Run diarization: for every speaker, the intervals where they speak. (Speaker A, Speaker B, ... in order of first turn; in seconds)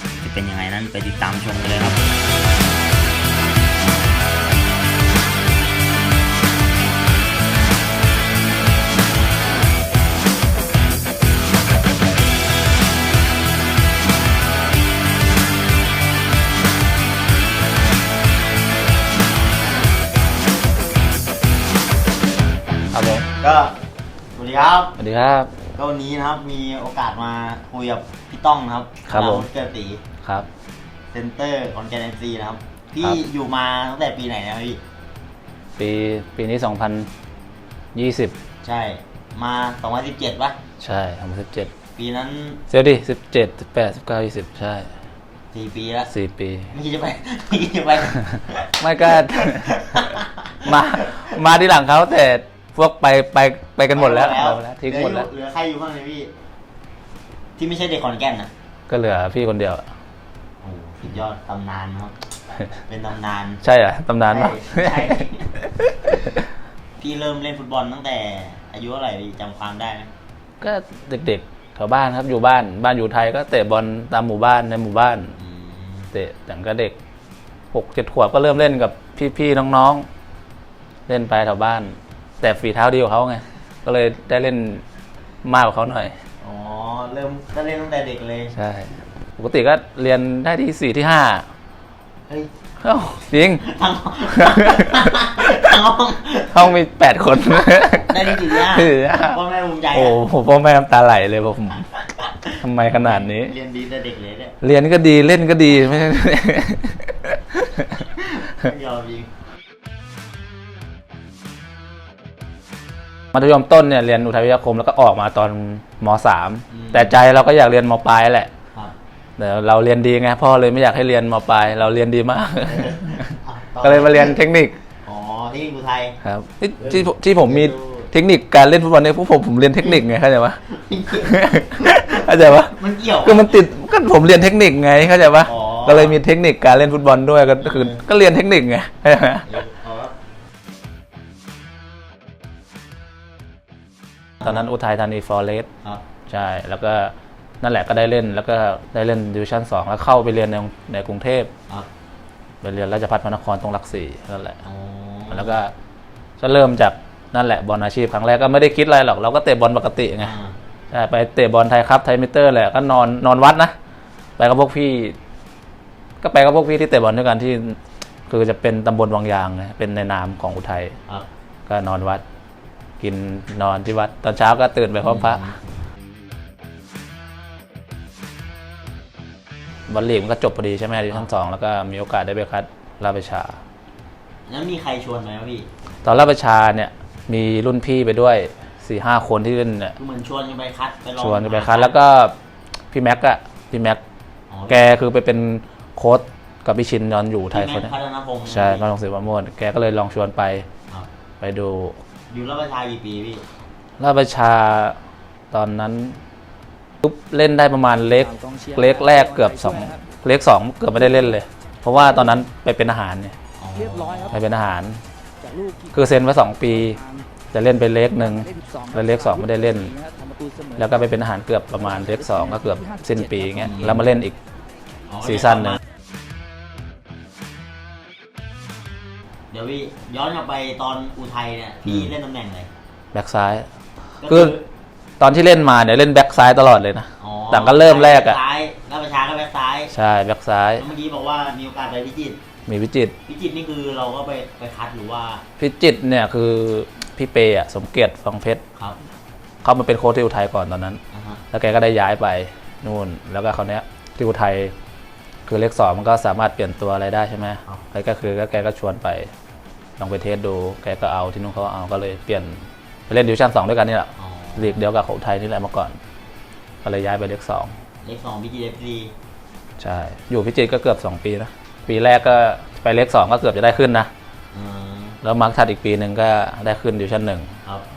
Speaker A: 0.2-2.0, 23.4-23.8, 24.4-25.0, 25.8-30.0, 31.1-34.8, 38.6-40.6, 42.0-42.6, 45.5-46.1, 46.7-51.4, 53.9-56.3, 57.6-58.5, 60.6-62.2, 62.7-63.6, 64.3-65.6, 67.0-70.1, 75.4-76.1, 86.4-88.5, 93.6-96.8, 97.9-100.2, 102.2-104.6, 108.2-109.3, 116.7-117.2, 122.7-124.4, 125.0-126.2, 126.8-128.1, 130.6-133.6, 135.4-136.2, 137.6-138.0, 139.4-140.1, 154.7-155.6, 160.2-160.6, 175.0-175.6, 184.5-185.7, 190.0-192.0, 194.5-195.0, 197.5-198.8, 202.3-203.4, 213.6-214.4, 223.6-224.0, 225.1-225.8, 229.5-232.7, 234.2-234.7, 237.2-239.9, 240.8-242.4, 243.3-245.4, 251.1-251.4, 264.2-264.8, 268.0-269.1, 274.5-275.2
Speaker B: 22.9-23.2, 25.0-25.5, 29.1-29.5, 35.8-37.1, 38.0-38.4, 40.8-41.7, 42.7-44.9, 46.1-46.7, 48.3-49.7, 50.6-55.3, 58.9-59.9, 63.6-66.4, 70.6-75.3, 76.1-77.0, 77.7-80.0, 81.1-84.8, 85.4-86.2, 88.5-91.5, 92.8-93.7, 94.3-95.0, 96.5-99.4, 99.9-101.9, 102.6-103.5, 104.6-108.0, 113.3-118.5, 119.4-123.3, 123.8-124.8, 126.2-130.6, 131.1-139.5, 144.4-145.7, 146.3-151.5, 152.6-154.6, 155.3-155.7, 156.4-160.3, 160.9-163.7, 164.4-165.2, 166.2-171.0, 171.7-172.2, 173.0-175.4, 179.9-183.6, 186.0-190.0, 191.2-192.3, 192.9-194.0, 194.7-197.9, 198.5-200.7, 201.4-202.0, 204.0-205.0, 205.5-206.2, 207.0-213.3, 214.3-215.0, 215.9-217.0, 217.5-219.9, 220.8-224.3, 225.2-225.8, 233.1-233.7, 234.3-234.6, 235.2-238.4, 239.9-240.8, 242.7-243.1, 245.6-248.6, 249.6-251.0, 251.5-254.7, 255.5-259.3, 260.0-266.0, 266.8-267.7, 269.8-274.1, 275.2-277.6
Speaker C: 208.4-208.9, 215.4-215.9, 218.7-219.0, 220.2-220.8